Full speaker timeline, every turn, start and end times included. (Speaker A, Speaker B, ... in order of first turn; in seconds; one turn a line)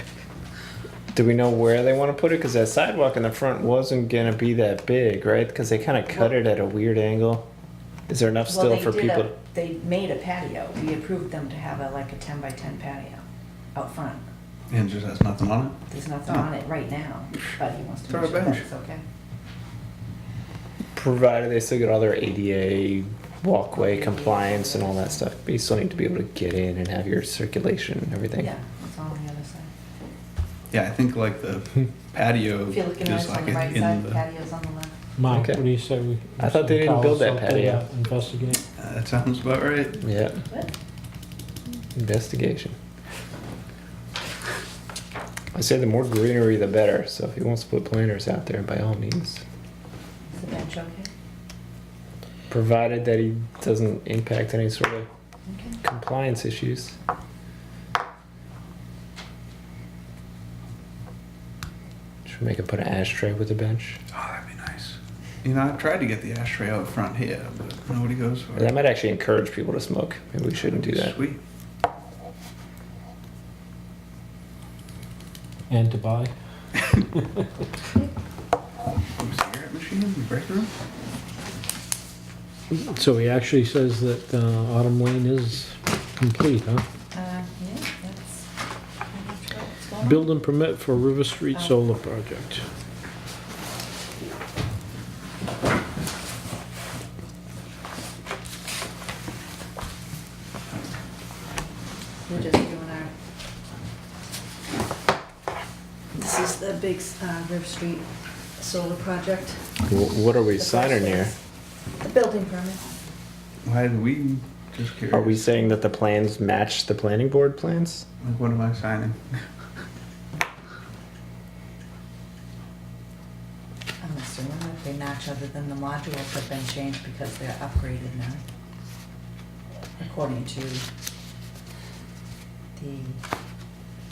Speaker A: 1.1-7.5
Speaker A: 8.1-9.3
Speaker B: 8.5-14.2
Speaker C: 14.7-16.5
Speaker B: 15.9-19.0
Speaker C: 18.1-18.6
Speaker A: 20.9-28.5
Speaker B: 23.8-25.3
Speaker B: 28.4-29.7
Speaker C: 30.7-34.2
Speaker B: 32.7-35.0
Speaker D: 35.2-38.6
Speaker A: 35.3-35.6
Speaker A: 36.4-37.8
Speaker C: 38.8-40.0
Speaker A: 40.0-40.4
Speaker A: 42.0-42.8
Speaker A: 45.5-49.4
Speaker B: 50.3-51.1
Speaker A: 52.5-55.1
Speaker B: 55.5-55.8
Speaker A: 55.8-57.0
Speaker A: 62.3-64.0
Speaker C: 64.1-68.7
Speaker A: 68.6-71.2
Speaker C: 70.9-71.4
Speaker D: 75.7-76.3
Speaker C: 79.2-80.7
Speaker D: 82.7-86.8
Speaker B: 87.1-88.5
Speaker B: 89.1-90.3
Speaker D: 90.0-92.6
Speaker B: 102.3-103.1
Speaker B: 106.2-108.0
Speaker B: 108.6-109.6
Speaker A: 109.9-111.3
Speaker B: 110.6-111.4
Speaker B: 112.0-112.8
Speaker C: 113.6-115.5
Speaker A: 115.1-118.1
Speaker C: 118.2-119.3
Speaker B: 124.0-128.4
Speaker B: 130.0-130.9
Speaker B: 132.8-133.2